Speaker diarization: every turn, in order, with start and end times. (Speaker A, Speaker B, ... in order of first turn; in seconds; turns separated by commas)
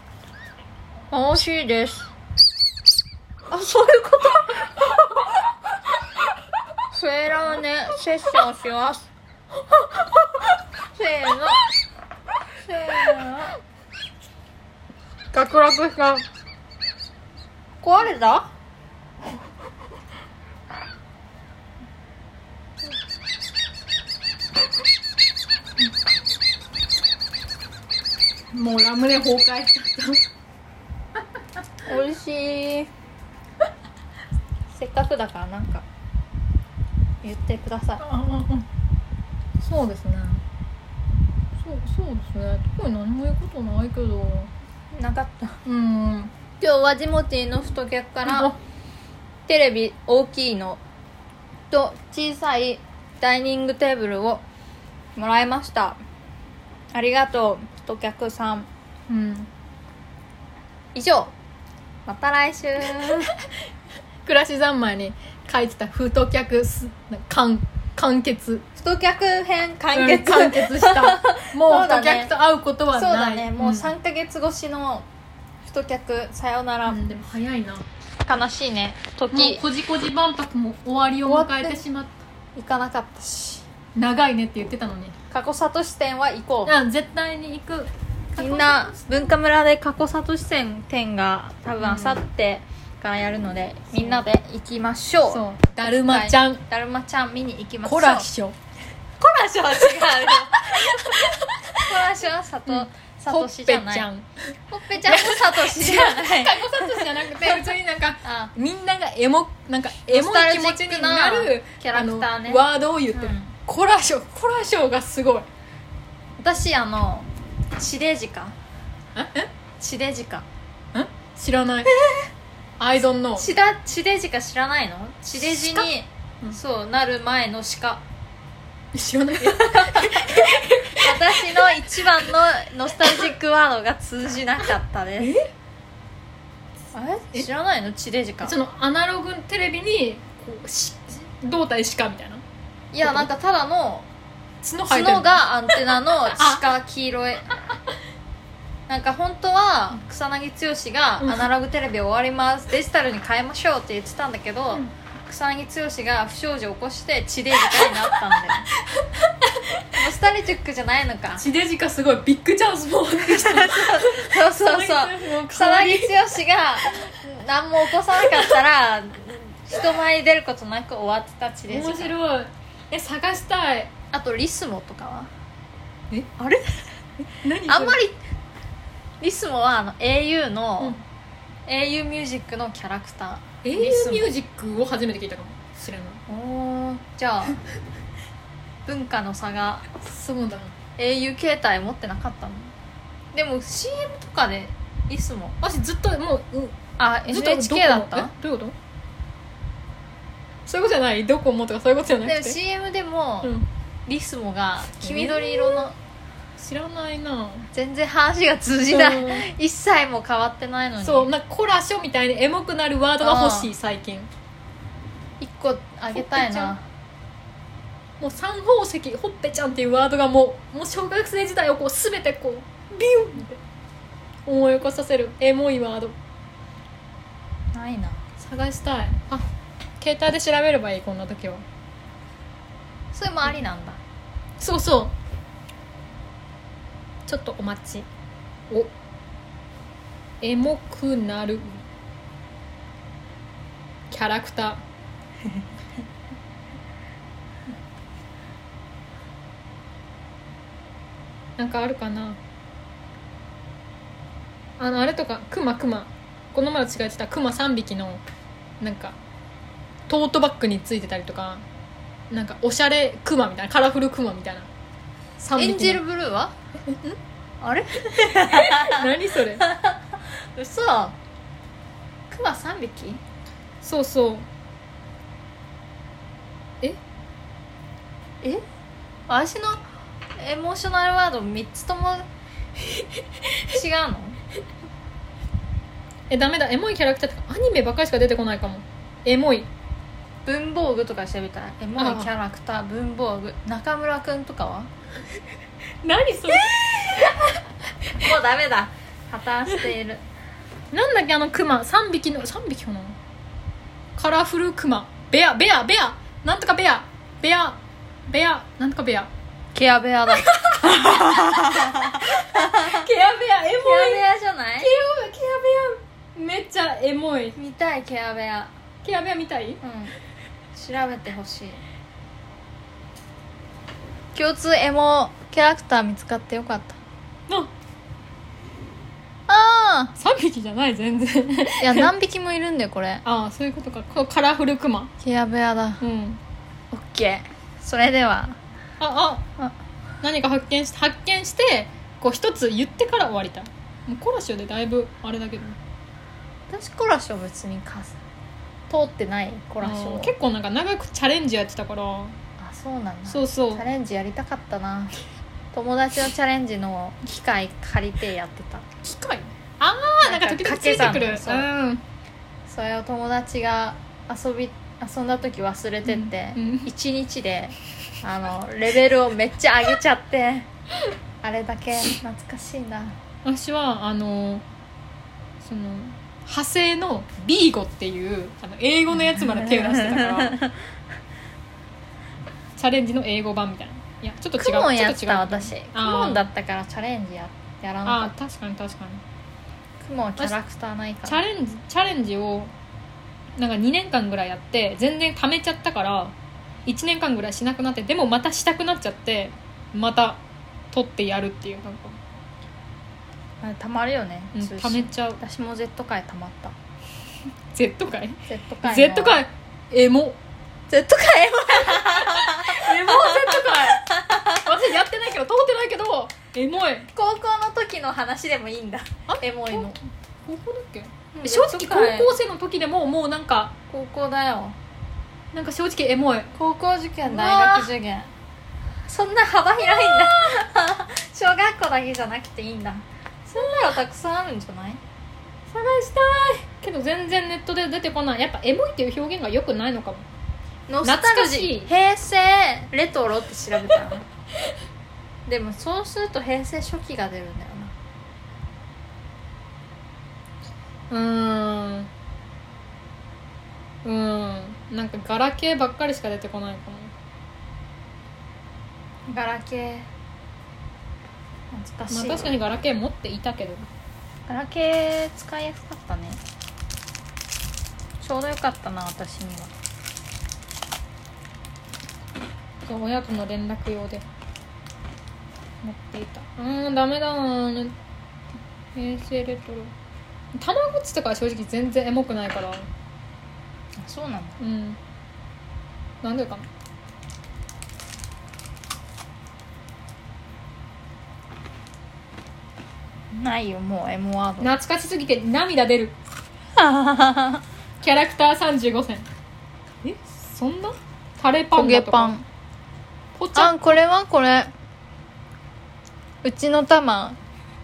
Speaker A: 1.1-2.1, Speaker A: 3.5-4.9, Speaker A: 6.9-9.0, Speaker A: 10.9-11.6, Speaker A: 12.6-13.6, Speaker B: 15.3-16.2, Speaker A: 17.8-18.5, Speaker B: 28.5-30.2, Speaker A: 31.8-32.9, Speaker A: 34.7-35.8, Speaker A: 37.2-38.0, Speaker B: 38.0-38.6, Speaker B: 39.6-40.4, Speaker B: 41.6-44.5, Speaker A: 44.9-45.6, Speaker B: 45.6-46.3, Speaker A: 46.6-48.5, Speaker B: 48.2-48.5, Speaker A: 49.5-50.8, Speaker A: 51.7-54.4, Speaker A: 55.1-56.0, Speaker A: 56.9-58.7, Speaker B: 59.1-59.5, Speaker A: 60.9-61.3, Speaker A: 62.0-63.3, Speaker B: 64.2-68.6, Speaker A: 68.8-72.3, Speaker B: 69.9-73.9, Speaker A: 72.9-75.0, Speaker A: 75.6-77.0, Speaker B: 76.8-77.8, Speaker A: 78.2-79.6, Speaker B: 79.3-82.2, Speaker A: 81.2-81.8, Speaker A: 82.5-83.6, Speaker B: 84.0-85.2, Speaker A: 85.3-86.7, Speaker B: 86.7-89.3, Speaker A: 88.3-98.3, Speaker B: 91.8-92.2, Speaker B: 93.9-94.2, Speaker B: 95.3-96.6, Speaker B: 97.8-98.5, Speaker A: 99.2-101.2, Speaker B: 100.3-101.8, Speaker A: 101.8-104.1, Speaker B: 102.7-104.5, Speaker A: 104.7-107.6, Speaker B: 105.0-115.5, Speaker A: 108.2-108.5, Speaker A: 110.1-113.5, Speaker A: 116.4-118.5, Speaker B: 119.1-119.5, Speaker A: 119.8-120.5, Speaker B: 120.9-121.9, Speaker B: 122.8-123.5, Speaker A: 123.3-128.0, Speaker B: 125.4-125.9, Speaker B: 128.9-132.0, Speaker A: 129.4-130.4, Speaker A: 131.0-135.3, Speaker B: 135.2-135.5, Speaker A: 136.9-138.6, Speaker B: 138.4-142.4, Speaker A: 142.9-144.1, Speaker B: 143.0-143.3, Speaker B: 144.6-146.7, Speaker A: 144.8-147.5, Speaker A: 148.9-158.7, Speaker B: 151.2-151.5, Speaker B: 157.7-158.2, Speaker B: 158.9-159.9, Speaker A: 159.9-161.4, Speaker B: 161.4-166.2, Speaker A: 163.1-172.2, Speaker B: 168.2-168.5, Speaker B: 171.7-173.9, Speaker A: 174.1-175.3, Speaker A: 176.4-176.9, Speaker B: 177.3-178.0, Speaker A: 177.7-178.2, Speaker A: 179.2-181.0, Speaker A: 181.7-184.3, Speaker B: 183.6-186.2, Speaker A: 186.3-187.6, Speaker A: 188.8-189.9, Speaker B: 190.0-190.7, Speaker A: 191.0-192.7, Speaker A: 193.3-195.6, Speaker B: 195.6-196.8, Speaker A: 197.0-198.3, Speaker B: 197.3-198.7, Speaker B: 200.7-202.6, Speaker A: 202.2-203.5, Speaker B: 203.4-203.7, Speaker A: 204.1-206.0, Speaker B: 205.0-205.9, Speaker B: 206.6-207.7, Speaker A: 207.7-211.3, Speaker B: 208.8-209.5, Speaker B: 211.0-214.3, Speaker A: 213.2-213.7, Speaker A: 215.4-216.8, Speaker B: 216.1-216.7, Speaker B: 218.2-223.6, Speaker B: 224.4-226.2, Speaker A: 227.7-228.2, Speaker B: 228.4-229.4, Speaker B: 230.0-231.6, Speaker A: 233.1-234.0, Speaker B: 234.6-235.1, Speaker B: 237.2-238.1, Speaker B: 240.4-241.8, Speaker B: 244.1-244.8, Speaker B: 251.6-252.4, Speaker B: 254.8-258.2, Speaker B: 258.8-259.1, Speaker B: 260.1-261.6, Speaker B: 262.3-264.7, Speaker B: 265.4-266.0, Speaker A: 265.6-266.5, Speaker B: 266.9-267.1, Speaker A: 267.6-270.0, Speaker B: 268.4-269.6, Speaker A: 270.5-271.1, Speaker A: 272.3-273.2, Speaker B: 273.8-274.5, Speaker A: 279.3-279.8, Speaker A: 280.4-282.3, Speaker A: 283.7-284.4, Speaker B: 286.3-289.7, Speaker A: 290.4-294.9, Speaker B: 292.0-292.3, Speaker B: 296.0-297.4, Speaker A: 298.2-300.2, Speaker B: 300.9-303.1, Speaker B: 304.1-309.3, Speaker A: 309.7-313.1, Speaker B: 310.3-314.3, Speaker A: 313.8-314.9, Speaker B: 314.8-317.6, Speaker A: 317.6-318.7, Speaker B: 319.0-319.8, Speaker A: 319.8-320.1, Speaker A: 320.7-321.8, Speaker A: 324.3-327.0, Speaker A: 329.5-330.1, Speaker B: 330.2-332.1, Speaker A: 331.8-333.2, Speaker B: 333.2-335.1, Speaker A: 335.2-336.0, Speaker B: 336.0-336.4, Speaker A: 336.9-338.6, Speaker B: 339.0-339.4, Speaker B: 340.2-345.8, Speaker A: 346.7-348.2, Speaker A: 348.9-350.3, Speaker B: 349.8-352.3, Speaker A: 352.6-355.2, Speaker B: 353.3-353.9, Speaker A: 355.7-358.8, Speaker B: 359.0-362.0, Speaker A: 360.2-361.7, Speaker A: 362.7-370.7, Speaker B: 366.1-366.9, Speaker A: 371.4-373.2, Speaker B: 373.4-374.6, Speaker B: 375.6-380.6, Speaker A: 379.2-380.7, Speaker B: 382.8-386.5, Speaker A: 384.6-388.3, Speaker B: 388.1-389.2, Speaker A: 390.0-391.4, Speaker B: 391.3-392.7, Speaker B: 393.6-396.3, Speaker B: 396.9-400.4, Speaker B: 400.9-402.2, Speaker A: 403.6-406.7, Speaker B: 404.5-405.4, Speaker B: 407.7-410.4, Speaker A: 408.5-409.4, Speaker A: 410.9-414.7, Speaker B: 411.8-417.1, Speaker A: 417.1-420.0, Speaker B: 419.3-423.7, Speaker A: 421.3-422.3, Speaker A: 423.9-424.8, Speaker B: 425.5-426.5, Speaker A: 426.5-428.3, Speaker B: 427.2-427.9, Speaker A: 429.1-435.0, Speaker B: 435.7-440.2, Speaker A: 440.9-444.2, Speaker B: 441.0-441.9, Speaker A: 445.4-447.9, Speaker B: 451.1-452.1, Speaker B: 454.0-457.1, Speaker A: 459.3-460.1, Speaker A: 461.7-462.5, Speaker B: 462.1-463.9, Speaker A: 464.5-466.4, Speaker A: 468.2-469.7, Speaker B: 472.8-474.2, Speaker B: 475.8-477.9, Speaker B: 478.9-479.9, Speaker B: 480.5-482.9, Speaker A: 484.0-484.6, Speaker B: 484.6-485.0, Speaker B: 486.2-486.6, Speaker A: 493.3-494.7, Speaker B: 494.6-496.1, Speaker A: 496.8-497.6, Speaker B: 498.0-499.3, Speaker B: 500.0-502.3, Speaker A: 501.7-502.4, Speaker B: 503.4-504.0, Speaker A: 503.5-504.7, Speaker A: 506.4-507.4